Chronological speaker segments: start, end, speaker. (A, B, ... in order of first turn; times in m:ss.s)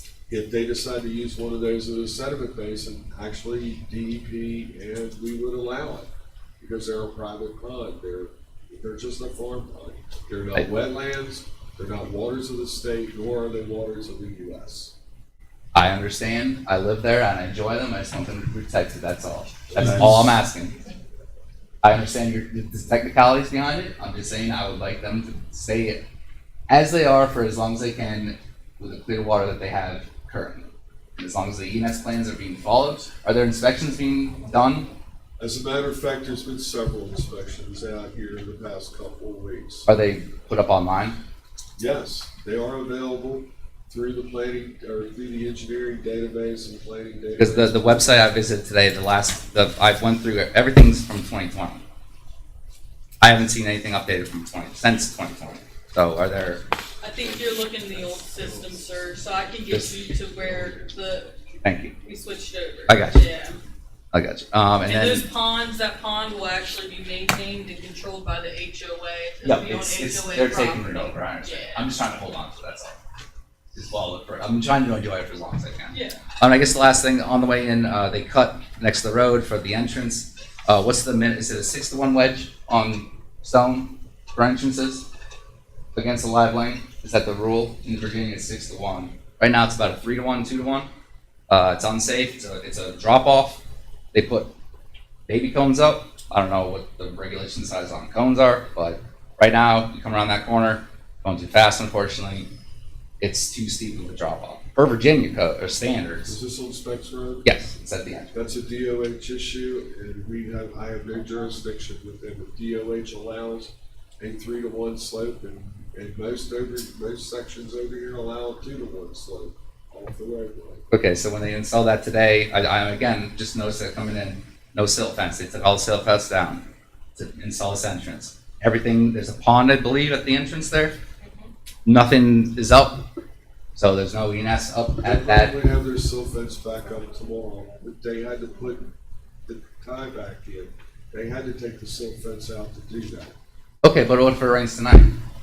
0:00.3-0:06.1 A
0:06.6-0:14.9 A
0:15.7-0:20.8 B
0:19.7-0:20.4 A
0:21.8-0:26.0 B
0:26.7-0:34.9 B
0:35.4-0:39.9 A
0:39.9-0:41.2 B
0:41.8-0:48.1 A
0:47.4-0:51.8 B
0:53.2-0:56.6 B
0:57.0-1:01.5 C
0:57.2-0:58.8 A
0:59.7-1:00.0 B
1:00.4-1:00.9 A
1:01.6-1:02.0 B
1:02.0-1:03.6 C
1:02.9-1:03.2 B
1:04.1-1:05.2 B
1:04.8-1:11.9 C
1:09.4-1:13.0 B
1:13.7-1:25.1 B
1:15.9-1:16.2 C
1:25.9-1:30.9 B
1:31.5-1:33.6 B
1:34.1-1:34.5 B
1:35.3-1:42.5 B
1:43.2-1:46.4 B
1:46.3-1:47.5 A
1:47.4-1:48.3 B
1:48.3-2:00.9 A
2:00.9-2:11.0 B
2:11.2-2:11.5 C
2:11.8-2:13.1 B
2:13.8-2:15.6 B
2:15.0-2:18.9 A
2:19.4-2:23.3 A
2:23.8-2:25.1 B